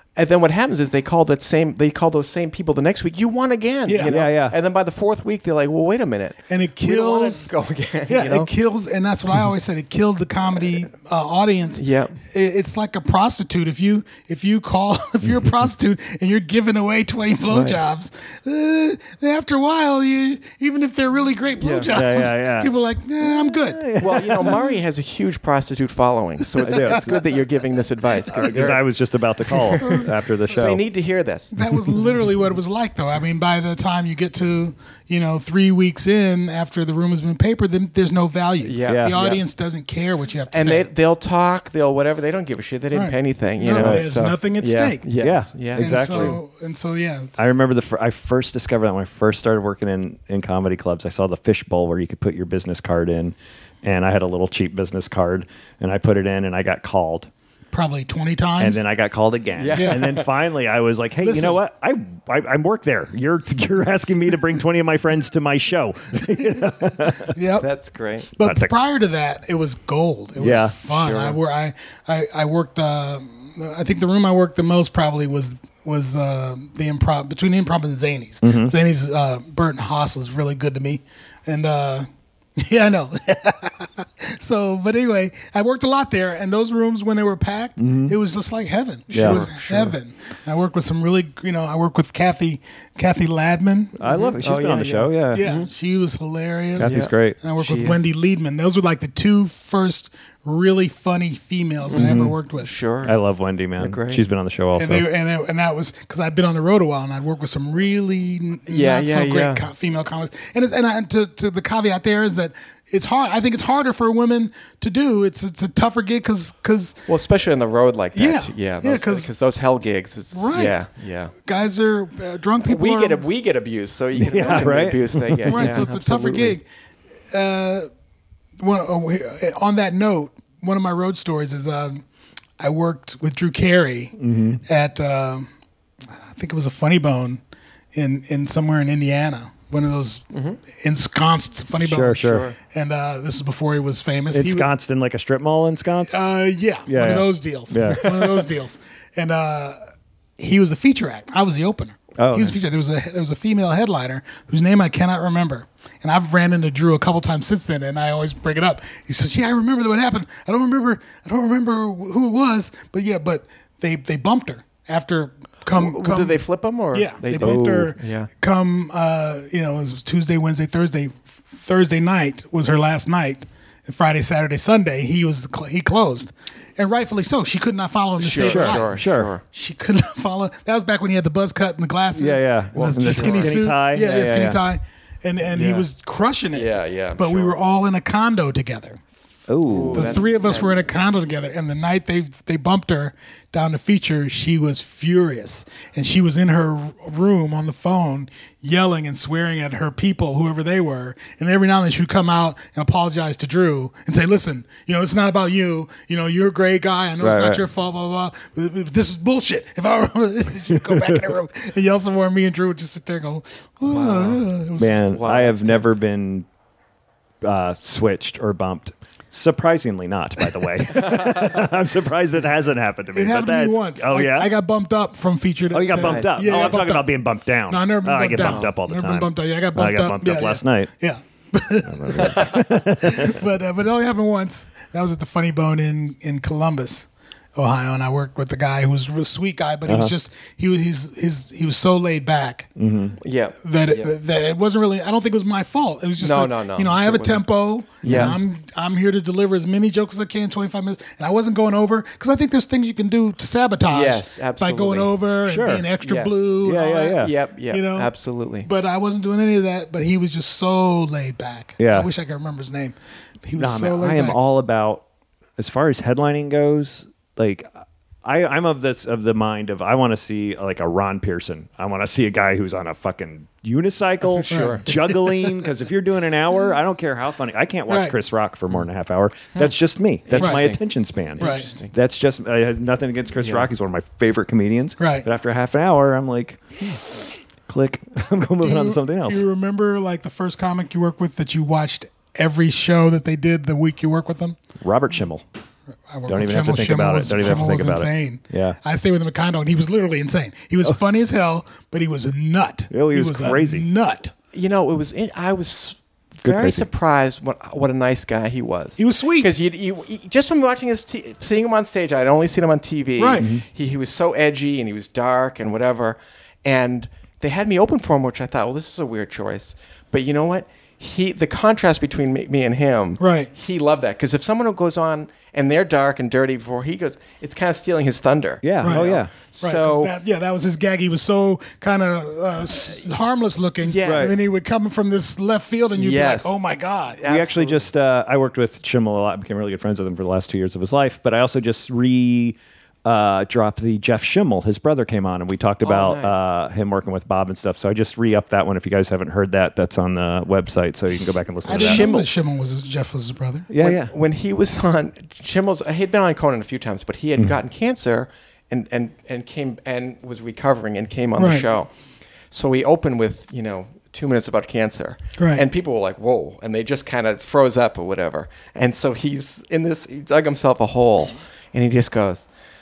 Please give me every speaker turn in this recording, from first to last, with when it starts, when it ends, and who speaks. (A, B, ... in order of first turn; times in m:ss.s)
0:00.2-0:08.5 A
0:03.9-0:04.1 B
0:04.0-0:04.5 C
0:06.5-0:07.5 B
0:08.1-0:23.8 B
0:11.8-0:12.2 A
0:17.5-0:17.8 A
0:21.6-0:21.9 A
0:21.9-0:22.7 C
0:23.2-0:24.6 C
0:24.0-0:28.8 A
0:26.6-0:27.2 C
0:26.7-0:27.1 B
0:28.4-0:30.8 C
0:29.5-0:31.6 A
0:29.8-0:30.1 B
0:31.5-0:40.9 B
0:38.6-0:39.4 A
0:38.8-0:39.2 C
0:40.5-0:46.4 A
0:42.9-0:45.0 B
0:43.8-0:44.0 C
0:45.2-0:46.4 C
0:45.8-0:47.3 B
0:47.4-0:57.3 C
0:57.7-0:58.8 B
0:58.6-1:07.3 C
0:59.6-1:00.2 A
0:59.8-1:00.0 B
1:01.2-1:01.6 B
1:07.2-1:07.7 B
1:07.6-1:08.3 A
1:08.4-1:34.0 B
1:08.4-1:08.7 C
1:10.4-1:10.8 C
1:10.4-1:11.4 A
1:18.4-1:18.7 C
1:27.8-1:28.1 C
1:29.1-1:29.8 C
1:29.1-1:29.9 A
1:34.0-1:35.4 C
1:34.0-1:35.7 A
1:35.3-1:42.7 B
1:36.8-1:37.4 C
1:36.8-1:38.0 A
1:41.9-1:43.1 A
1:41.9-1:42.4 C
1:43.0-1:45.0 C
1:43.8-1:44.2 A
1:44.8-1:57.1 B
1:48.7-1:49.6 A
1:57.1-2:01.3 A
1:58.1-1:59.3 B
2:00.3-2:00.8 B
2:01.4-2:03.2 B
2:02.6-2:06.6 A
2:04.2-2:05.8 C
2:04.4-2:04.7 B
2:05.5-2:06.6 B
2:07.3-2:07.9 B
2:08.6-2:12.0 B
2:12.6-2:15.5 B
2:14.2-2:14.6 C
2:16.1-2:17.4 B
2:17.9-2:24.7 B
2:20.3-2:20.6 A
2:21.8-2:22.5 C
2:22.2-2:22.5 A
2:24.3-2:26.3 C
2:26.1-2:29.8 B
2:26.9-2:28.1 C
2:30.4-2:46.4 B
2:32.2-2:32.6 C
2:45.7-2:48.3 A
2:46.9-2:59.0 B
2:47.4-2:47.9 C
2:58.2-2:59.4 A
2:58.4-2:59.3 C
2:59.5-3:09.0 B
3:02.1-3:04.6 C
3:02.7-3:03.6 A
3:05.5-3:05.8 A
3:06.5-3:07.5 A
3:09.5-3:10.2 C
3:09.6-3:10.8 A
3:09.9-3:35.0 B
3:27.2-3:27.6 C
3:33.9-3:34.4 A
3:34.8-3:36.5 C
3:35.1-3:35.8 A
3:37.4-3:44.5 C
3:43.1-4:02.7 B
3:45.7-3:50.9 C
3:45.9-3:46.8 A
3:48.4-3:48.7 A
3:51.9-3:53.4 C
3:59.8-4:00.1 C
4:02.8-4:03.2 C
4:03.2-4:04.1 A
4:03.6-4:18.1 B
4:06.2-4:07.4 A
4:08.0-4:08.4 A
4:08.0-4:08.4 C
4:13.9-4:15.1 A
4:15.5-4:15.9 C
4:16.0-4:16.4 A
4:16.6-4:17.3 C
4:17.2-4:18.7 A
4:18.6-4:24.4 B
4:21.8-4:22.1 C
4:23.6-4:25.0 C
4:25.6-4:49.4 C
4:34.4-4:34.9 A
4:34.5-4:34.8 B
4:37.9-4:38.1 B
4:40.3-4:40.8 A
4:41.4-4:41.9 A
4:41.4-4:41.7 B
4:45.0-4:45.2 B
4:48.6-4:54.6 B
4:54.8-4:55.4 C
4:56.1-5:04.3 B
4:56.3-4:58.8 C
5:02.9-5:03.8 C
5:04.5-5:30.1 A
5:06.4-5:06.9 C
5:09.0-5:09.5 B
5:13.2-5:13.5 B
5:13.4-5:13.6 C
5:23.2-5:23.5 B
5:28.6-5:29.3 C
5:28.8-5:37.2 B
5:33.8-5:34.4 A
5:34.0-5:34.3 C
5:35.9-5:36.5 A
5:37.1-5:37.8 A
5:37.2-5:52.1 C
5:45.8-5:46.4 A
5:51.6-5:53.7 B
5:51.7-5:52.3 A
5:53.7-5:54.1 C
5:53.8-6:01.9 A
6:01.4-6:01.7 B
6:02.5-6:12.5 A
6:05.4-6:05.6 B